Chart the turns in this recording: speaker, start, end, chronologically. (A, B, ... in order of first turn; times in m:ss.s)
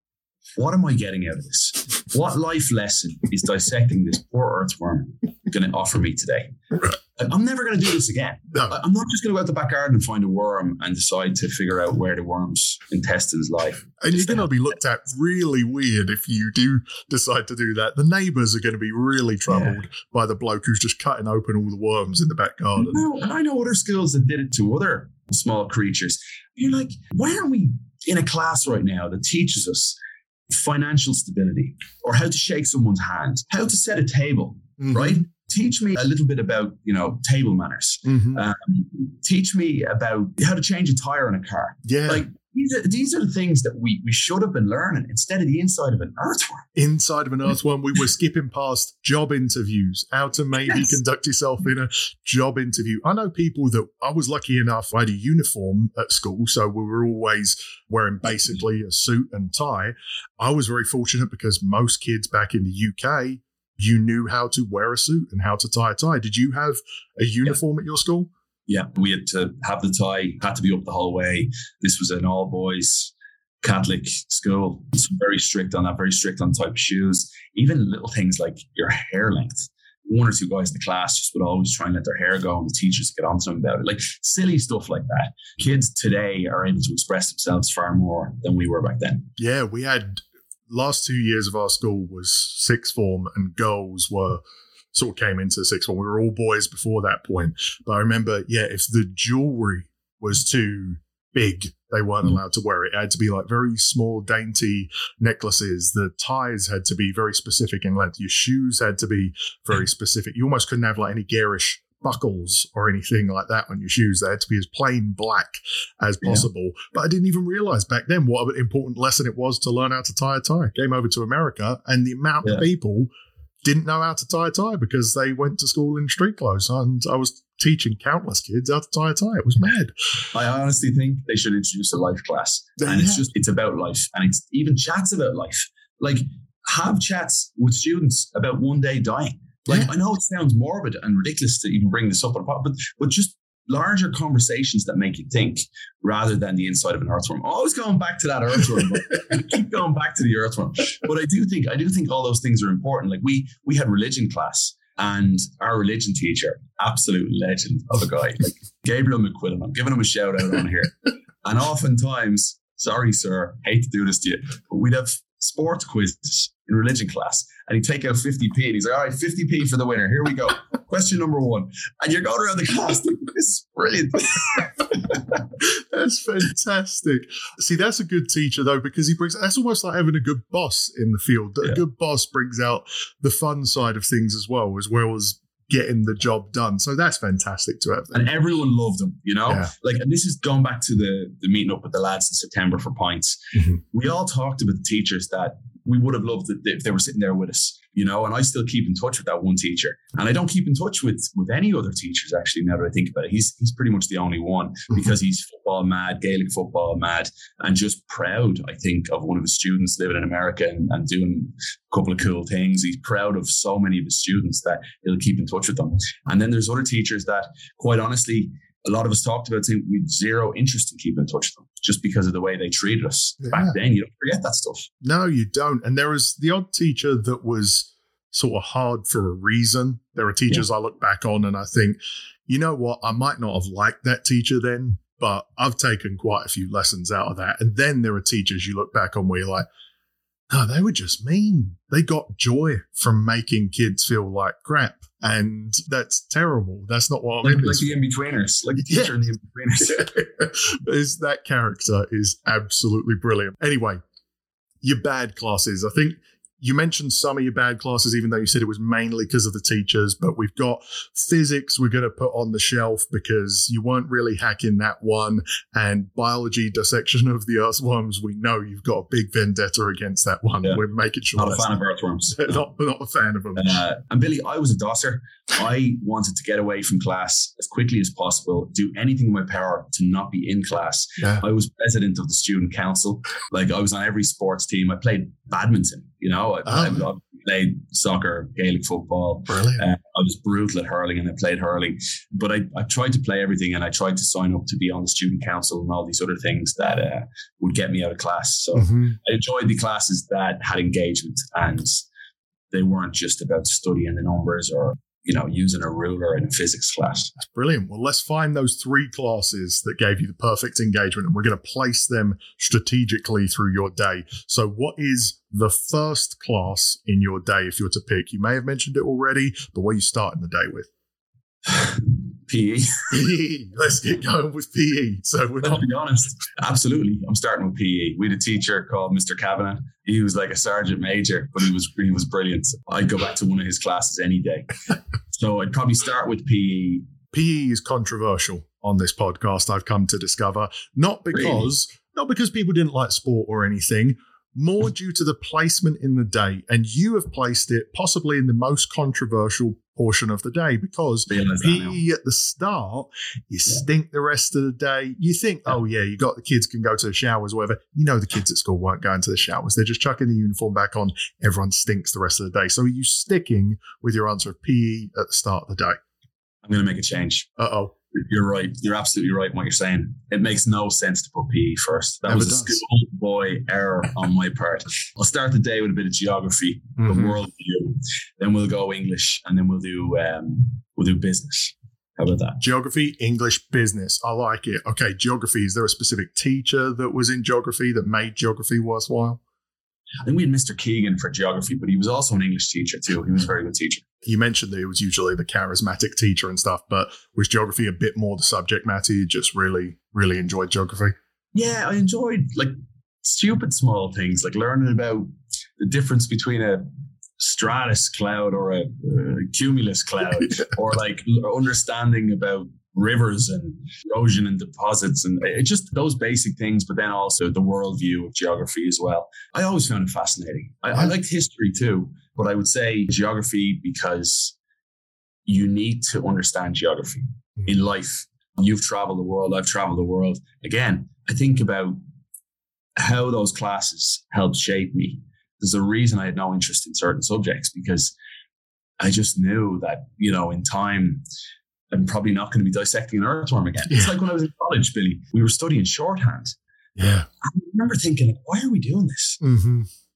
0:00.6-0:14.5 A
0:14.0-0:23.0 B
0:19.5-0:19.8 A
0:22.8-0:30.0 A
0:30.5-0:46.7 A
0:34.8-0:35.2 B
0:38.0-0:38.4 B
0:41.9-0:42.3 B
0:46.8-1:08.3 B
0:50.6-0:50.9 A
1:08.7-1:29.3 A
1:29.4-1:34.4 B
1:34.9-2:03.1 B
2:03.6-2:09.9 B
2:10.3-2:55.4 A
2:12.8-2:13.2 B
2:55.6-3:08.3 B
3:08.1-3:44.9 A
3:13.5-3:13.8 B
3:43.4-3:43.8 B
3:45.0-3:59.7 B
4:00.5-4:08.0 B
4:07.4-4:10.1 A
4:09.9-4:14.0 B
4:14.8-4:31.7 B
4:31.4-4:32.6 A
4:32.4-4:33.8 B
4:33.6-5:02.0 A
4:41.2-4:41.4 B
4:46.7-4:47.0 B
4:49.5-4:49.8 B
4:58.8-4:59.2 B
5:02.7-5:07.3 A
5:07.4-5:20.9 B
5:21.7-5:23.1 A
5:23.1-5:25.9 B
5:25.6-5:34.7 A
5:35.3-5:37.0 A
5:37.3-6:06.0 B
5:41.4-5:41.6 A
5:51.3-5:52.0 A
6:06.6-6:07.5 A
6:07.6-6:07.9 B
6:08.1-6:22.6 A
6:12.3-6:12.8 B
6:17.0-6:17.4 B
6:22.6-6:29.4 B
6:30.2-6:34.0 A
6:34.2-6:41.2 B
6:41.5-6:46.9 A
6:47.4-7:04.6 A
7:05.5-7:12.0 A
7:13.0-7:18.2 A
7:19.0-7:21.2 A
7:21.9-7:26.6 A
7:27.0-7:27.3 B
7:27.4-7:29.4 A
7:29.4-7:29.9 B